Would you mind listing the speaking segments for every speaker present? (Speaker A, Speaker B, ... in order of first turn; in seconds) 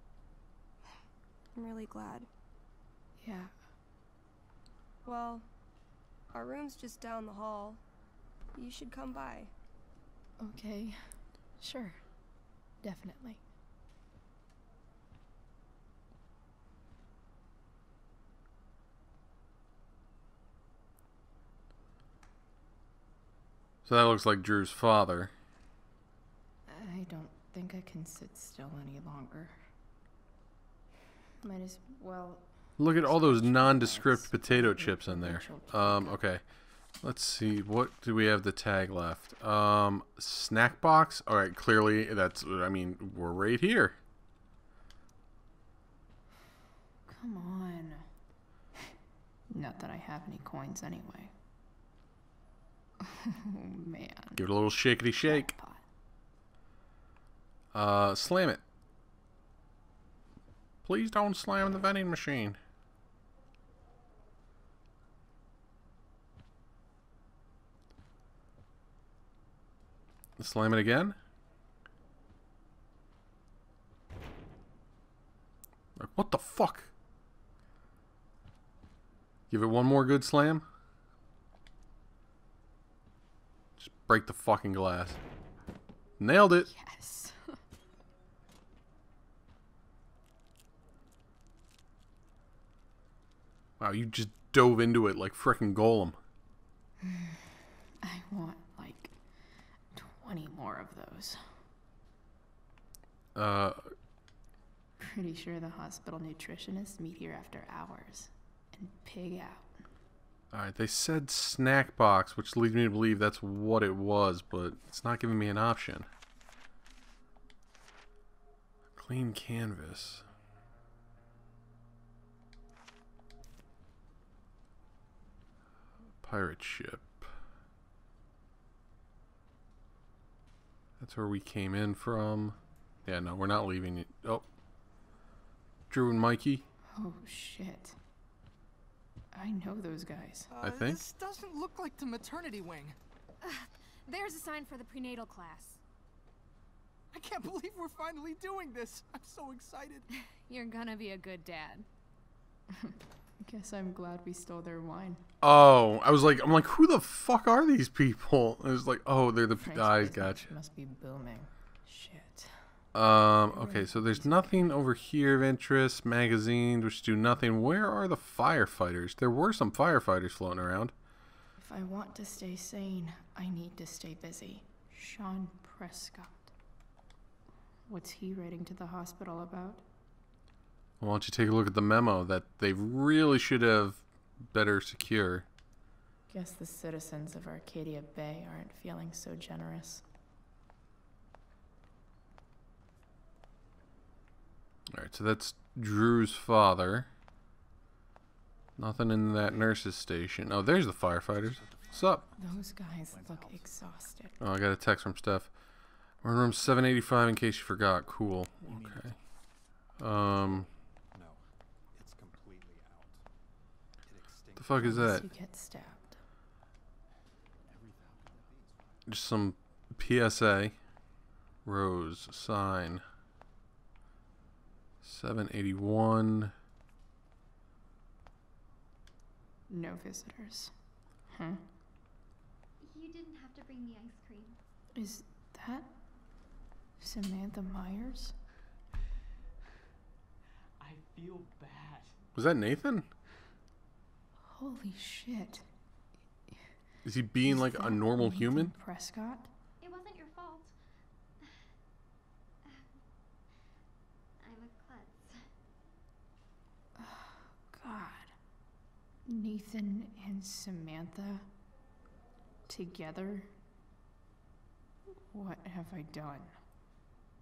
Speaker A: 1.6-2.3, 5.0-5.5, 6.3-7.8, 8.5-9.5
Speaker B: 10.4-12.0, 12.8-13.4
Speaker C: 23.9-25.3, 32.8-36.4, 37.0-44.0, 54.4-55.5, 57.7-58.6, 60.8-62.6, 70.4-71.2, 76.0-76.9, 79.5-80.7, 83.8-85.2, 86.2-86.7, 93.8-96.2, 103.3-103.8, 110.5-116.1, 119.0-120.3, 126.2-127.3, 131.0-134.4, 135.9-136.6, 140.6-141.0, 155.4-160.5, 162.9-170.9, 181.0-185.5, 194.9-197.1, 198.8-202.3, 204.4-205.5, 206.2-209.1, 210.0-210.7, 214.6-215.3, 219.1-220.8, 221.7-223.0, 225.0-226.5, 242.3-243.1, 247.0-248.7
Speaker D: 26.7-29.6, 31.4-36.2, 47.1-48.0, 49.5-51.3, 53.1-54.4, 55.2-55.8, 86.7-87.4, 97.0-99.2, 99.9-101.4, 105.0-109.8, 136.9-138.0, 139.3-140.5, 152.8-155.2, 159.6-162.5, 163.5-164.7, 171.6-176.5, 177.9-179.8, 186.3-190.0, 202.4-204.4, 214.8-216.2, 229.7-230.7, 231.3-231.6, 235.0-235.9, 237.0-238.3, 244.4-245.7, 247.4-249.5, 257.0-258.3, 259.3-261.5, 262.7-263.5, 265.3-266.5
Speaker E: 140.5-143.0, 147.1-150.1
Speaker F: 144.1-145.8, 150.5-151.8
Speaker G: 201.5-202.1, 212.0-213.0, 214.4-214.7
Speaker H: 232.8-234.6, 249.8-250.8, 254.4-255.4